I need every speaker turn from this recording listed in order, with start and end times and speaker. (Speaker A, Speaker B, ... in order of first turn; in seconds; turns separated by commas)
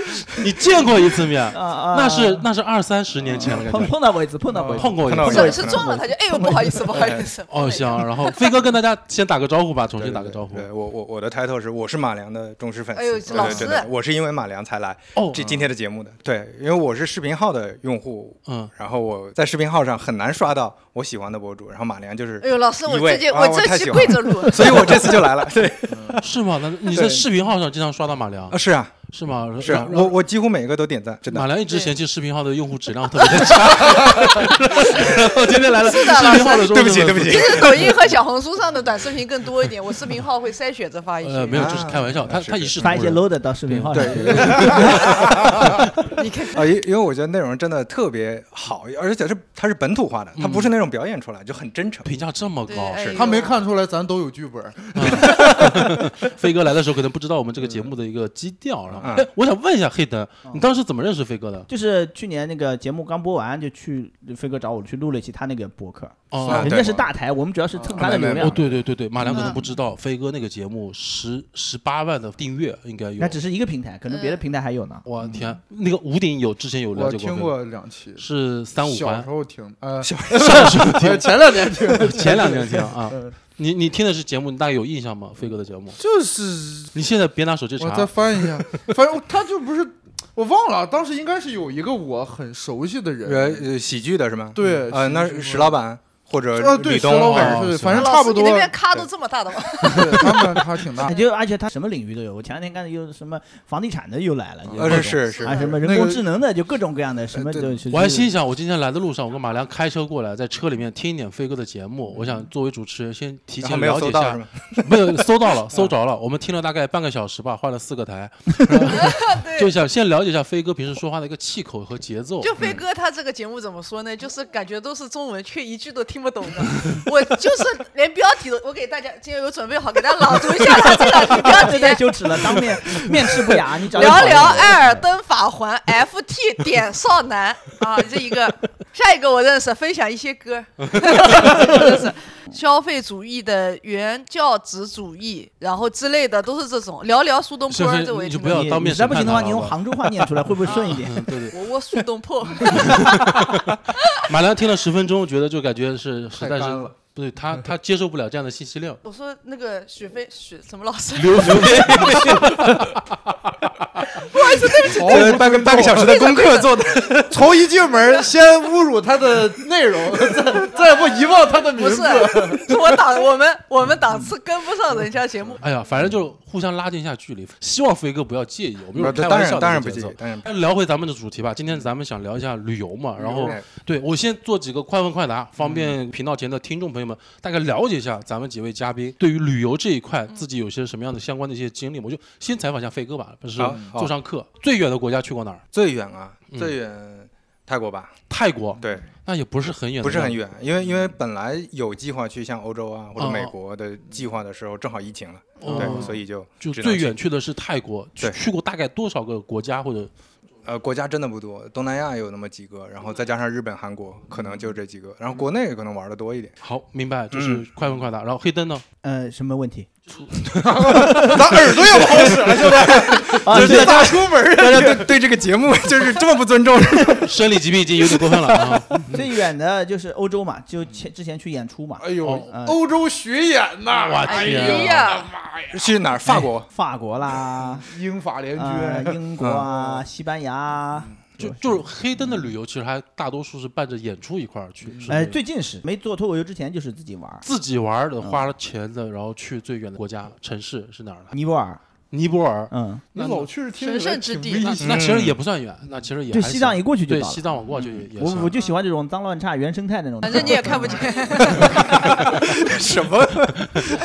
Speaker A: 0.3-3.9, Speaker B: 1.5-2.5, Speaker C: 3.3-3.9, Speaker B: 3.3-6.9, Speaker C: 4.5-4.9, Speaker A: 4.7-5.7, Speaker D: 5.0-5.9, Speaker E: 5.2-8.6, Speaker C: 6.9-7.2, Speaker A: 7.5-10.7, Speaker D: 10.0-26.2, Speaker E: 12.9-13.9, Speaker C: 13.3-13.7, Speaker A: 15.1-15.7, Speaker A: 18.4-18.7, Speaker E: 22.4-25.2, Speaker C: 25.9-26.2, Speaker A: 26.2-30.1, Speaker D: 26.9-27.2, Speaker D: 28.5-29.0, Speaker D: 29.6-31.5, Speaker A: 31.3-38.0, Speaker E: 31.7-31.9, Speaker E: 33.2-42.0, Speaker D: 36.0-37.9, Speaker A: 41.2-44.9, Speaker D: 41.5-42.9, Speaker B: 42.8-45.1, Speaker D: 43.9-45.9, Speaker E: 46.0-46.7, Speaker D: 46.5-52.1, Speaker A: 50.4-50.7, Speaker A: 52.0-53.1, Speaker E: 52.7-53.6, Speaker D: 53.0-53.3, Speaker C: 53.1-56.3, Speaker A: 54.9-61.7, Speaker C: 57.6-57.9, Speaker D: 59.0-59.3, Speaker B: 61.7-68.6, Speaker A: 66.3-66.8, Speaker C: 66.4-67.0, Speaker D: 66.4-67.1, Speaker C: 67.8-68.1, Speaker D: 68.0-68.8, Speaker A: 68.1-73.4, Speaker B: 69.2-69.7, Speaker E: 69.3-69.6, Speaker B: 73.2-75.0, Speaker E: 74.1-74.4, Speaker A: 75.0-77.5, Speaker C: 76.9-78.2, Speaker A: 78.2-79.3, Speaker C: 78.8-83.3, Speaker D: 80.0-80.9, Speaker A: 80.3-86.0, Speaker C: 85.5-86.9, Speaker A: 86.9-88.8, Speaker C: 87.8-93.7, Speaker D: 93.2-97.7, Speaker C: 94.5-95.8, Speaker C: 96.5-99.1, Speaker A: 97.2-98.1, Speaker E: 97.9-101.2, Speaker C: 99.8-101.1, Speaker B: 101.0-108.3, Speaker C: 104.6-105.1, Speaker D: 104.8-105.8, Speaker E: 105.3-105.8, Speaker C: 105.6-106.3, Speaker D: 107.3-107.8, Speaker A: 107.9-122.5, Speaker D: 113.6-115.2, Speaker E: 118.8-119.7, Speaker E: 122.4-148.7, Speaker B: 131.2-135.1, Speaker A: 140.8-141.7, Speaker A: 147.7-151.6, Speaker B: 148.5-151.2, Speaker E: 150.6-154.3, Speaker A: 152.6-159.0, Speaker C: 156.4-156.9, Speaker E: 159.0-162.4, Speaker A: 161.2-163.1, Speaker E: 164.1-167.0, Speaker C: 164.8-166.4, Speaker D: 164.9-167.6, Speaker C: 167.3-172.8, Speaker E: 171.7-175.6, Speaker A: 175.6-195.6, Speaker D: 178.9-180.5, Speaker D: 183.2-183.6, Speaker D: 193.6-194.1, Speaker C: 193.7-194.0, Speaker D: 195.7-198.2, Speaker A: 198.3-200.4, Speaker D: 198.8-199.0, Speaker D: 200.0-207.1, Speaker A: 203.2-203.5, Speaker A: 205.6-210.1, Speaker C: 205.7-206.1, Speaker D: 210.6-216.6, Speaker A: 216.6-218.8, Speaker D: 217.3-217.7, Speaker B: 219.0-219.9, Speaker C: 220.4-225.1, Speaker B: 221.0-221.4, Speaker D: 221.9-227.3, Speaker B: 223.4-224.2, Speaker A: 227.2-229.2, Speaker B: 229.1-232.8, Speaker C: 232.0-236.0, Speaker A: 232.2-232.5, Speaker A: 233.9-235.0, Speaker E: 234.2-235.3, Speaker D: 235.7-236.7, Speaker B: 236.3-237.9, Speaker C: 237.7-240.0, Speaker B: 238.6-241.8, Speaker D: 239.4-239.7, Speaker A: 241.4-245.3, Speaker C: 244.8-245.1, Speaker B: 245.1-247.4, Speaker A: 247.4-251.3, Speaker B: 248.2-248.5, Speaker B: 251.3-251.8, Speaker A: 252.1-253.5, Speaker B: 252.7-253.0, Speaker C: 253.1-255.1, Speaker E: 253.7-254.8, Speaker A: 254.7-258.5, Speaker D: 254.8-255.4, Speaker B: 256.3-261.6, Speaker E: 260.2-262.0, Speaker D: 262.0-263.9, Speaker A: 263.6-263.9